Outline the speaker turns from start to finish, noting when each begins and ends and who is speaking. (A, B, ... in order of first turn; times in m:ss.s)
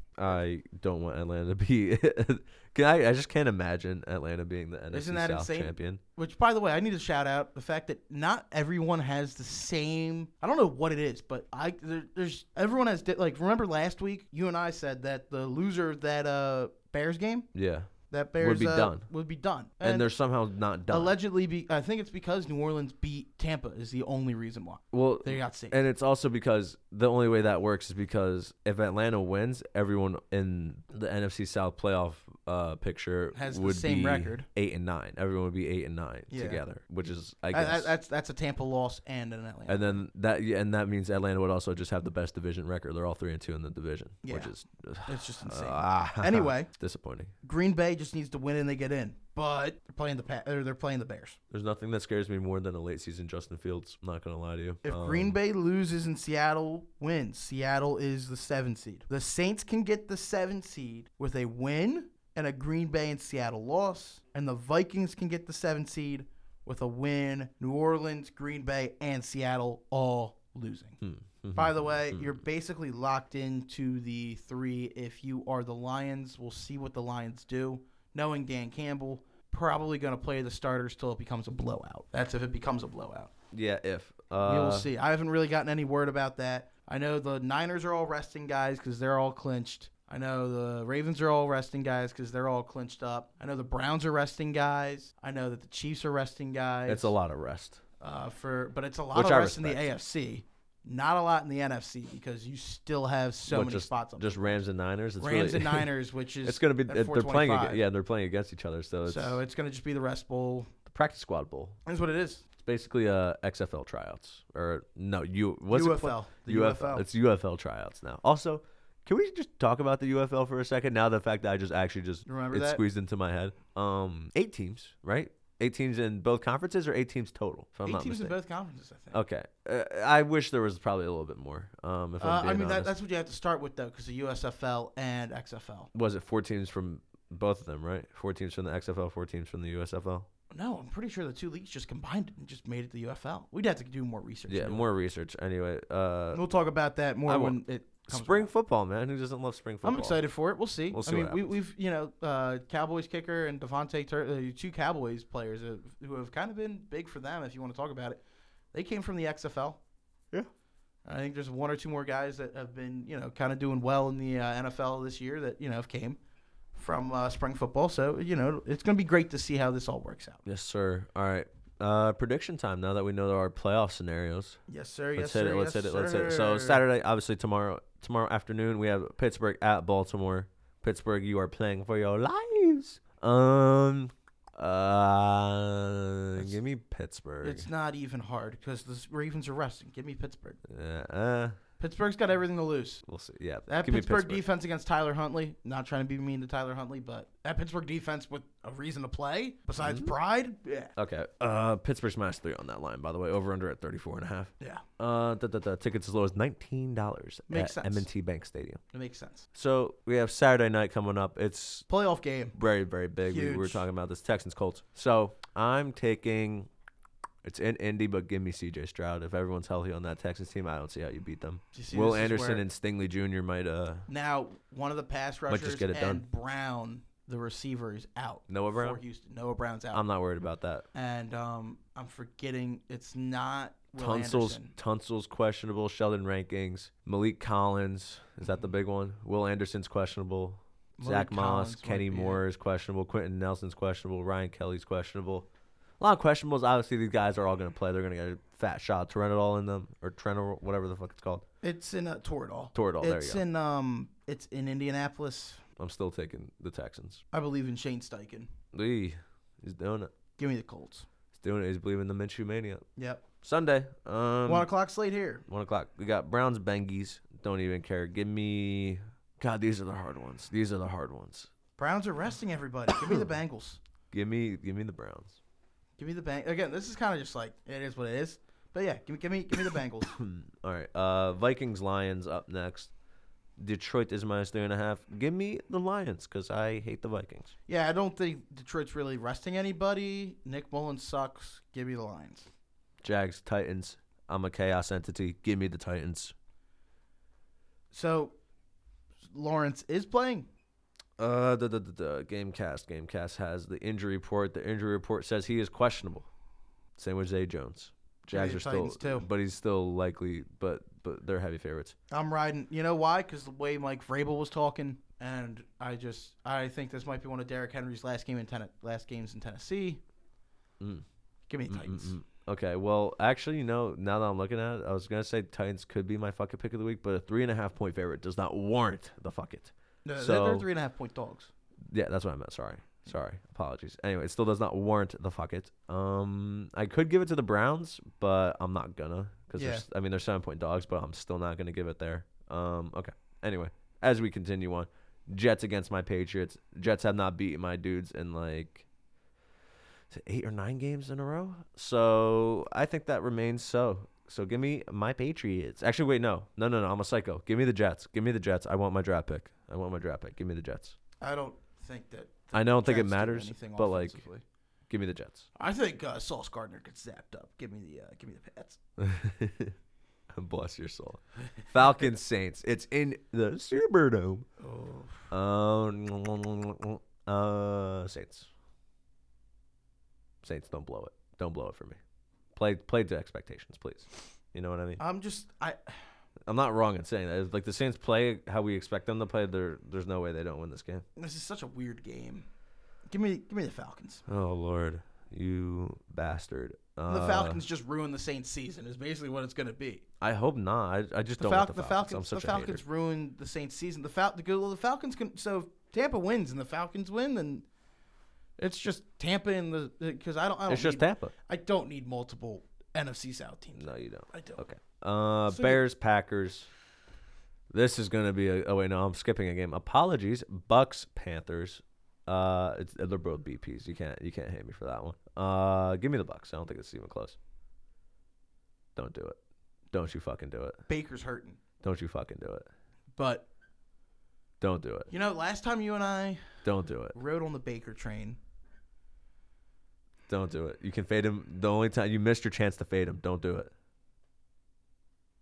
0:00.2-0:06.0 A
0:04.9-0:17.5 B
0:17.5-0:19.1 A
0:18.1-0:20.2 B
0:19.8-0:21.1 A
0:20.9-0:25.8 B
0:24.9-0:37.9 A
0:33.4-0:34.5 B
0:36.3-0:36.6 B
0:37.5-0:40.0 B
0:39.7-0:47.3 A
0:44.2-0:44.5 B
0:45.1-0:46.7 B
0:47.4-0:51.4 B
0:51.5-0:55.4 A
0:54.8-1:11.0 B
1:11.0-1:12.4 A
1:11.5-1:23.3 B
1:23.5-1:24.9 A
1:24.4-1:37.1 B
1:36.9-1:37.8 A
1:38.0-1:44.6 B
1:39.1-1:39.9 A
1:43.5-1:45.9 A
1:45.2-1:47.8 B
1:46.4-1:49.4 A
1:49.1-1:50.7 B
1:50.9-1:51.8 A
1:51.9-1:52.4 B
1:52.6-2:08.3 A
1:55.7-1:57.0 B
2:02.3-2:02.8 B
2:07.8-2:09.2 B
2:09.1-2:12.9 A
2:12.2-2:15.9 B
2:15.9-2:20.3 A
2:20.5-2:24.8 B
2:24.5-2:26.5 A
2:26.3-2:28.5 B
2:27.3-2:30.2 A
2:29.8-2:38.2 B
2:30.9-2:31.5 A
2:38.7-2:39.8 B
2:41.0-2:46.2 B
2:46.8-2:50.4 B
2:50.4-2:54.6 A
2:54.7-2:56.8 B
2:55.2-3:07.7 A
3:07.4-3:10.6 B
3:10.7-3:11.6 A
3:11.8-3:13.0 B
3:13.1-3:14.4 A
3:13.7-3:20.9 B
3:19.8-3:20.1 A
3:21.0-3:28.8 A
3:27.5-3:28.1 B
3:28.9-3:29.5 B
3:29.5-3:31.9 A
3:31.9-3:32.6 B
3:32.6-3:36.7 A
3:33.2-3:33.8 B
3:37.4-3:44.1 A
3:41.7-3:42.6 B
3:44.1-3:50.0 B
3:45.5-3:46.2 A
3:48.5-3:49.0 A
3:49.9-3:50.9 A
3:50.9-3:54.8 B
3:54.0-4:05.5 A
4:01.0-4:02.4 B
4:06.0-4:11.4 A
4:11.6-4:15.6 B
4:12.7-4:13.4 A
4:15.8-4:17.2 A
4:17.3-4:18.5 B
4:18.7-4:20.1 A
4:20.4-4:21.1 B
4:21.3-4:22.9 A
4:23.0-4:23.2 B
4:23.4-4:24.7 A
4:24.5-4:25.4 B
4:25.5-4:31.5 A
4:31.8-4:33.8 B
4:34.1-4:35.4 A
4:36.0-4:40.2 B
4:40.2-4:42.9 A
4:43.6-4:47.5 A
4:47.7-4:52.5 B
4:53.0-4:56.3 A
4:57.9-4:58.4 B
4:59.3-5:00.5 B
5:01.2-5:06.3 A
5:07.0-5:12.0 A
5:08.3-5:09.3 B
5:12.1-5:20.0 B
5:20.8-5:21.0 A
5:21.5-5:22.2 B
5:21.7-5:30.7 A
5:30.0-5:31.5 B
5:31.9-5:48.9 A
5:39.6-5:39.8 B
5:50.1-6:01.0 A
6:01.2-6:04.4 B
6:02.5-6:04.2 A
6:04.9-6:05.5 A
6:05.6-6:08.8 B
6:09.0-6:09.8 A
6:10.3-6:14.5 A
6:14.6-6:15.3 B
6:15.3-6:18.5 A
6:20.4-6:22.0 A
6:22.6-6:25.0 A
6:25.0-6:26.0 B
6:26.5-6:31.0 A
6:31.2-6:32.5 B
6:33.1-6:34.2 B
6:34.3-6:37.6 A
6:37.1-6:40.0 B
6:40.2-6:42.8 A
6:41.4-6:47.6 B
6:48.6-6:54.6 B
6:50.7-6:51.3 A
6:53.8-6:56.7 A
6:55.5-6:55.8 B
6:57.7-7:07.4 A
7:09.0-7:09.4 A
7:09.9-7:10.8 A
7:10.9-7:11.6 B
7:11.8-7:12.7 A
7:13.2-7:13.5 B
7:14.6-7:15.1 A
7:15.1-7:16.6 B
7:16.6-7:17.1 A
7:17.1-7:18.4 B
7:20.3-7:23.7 A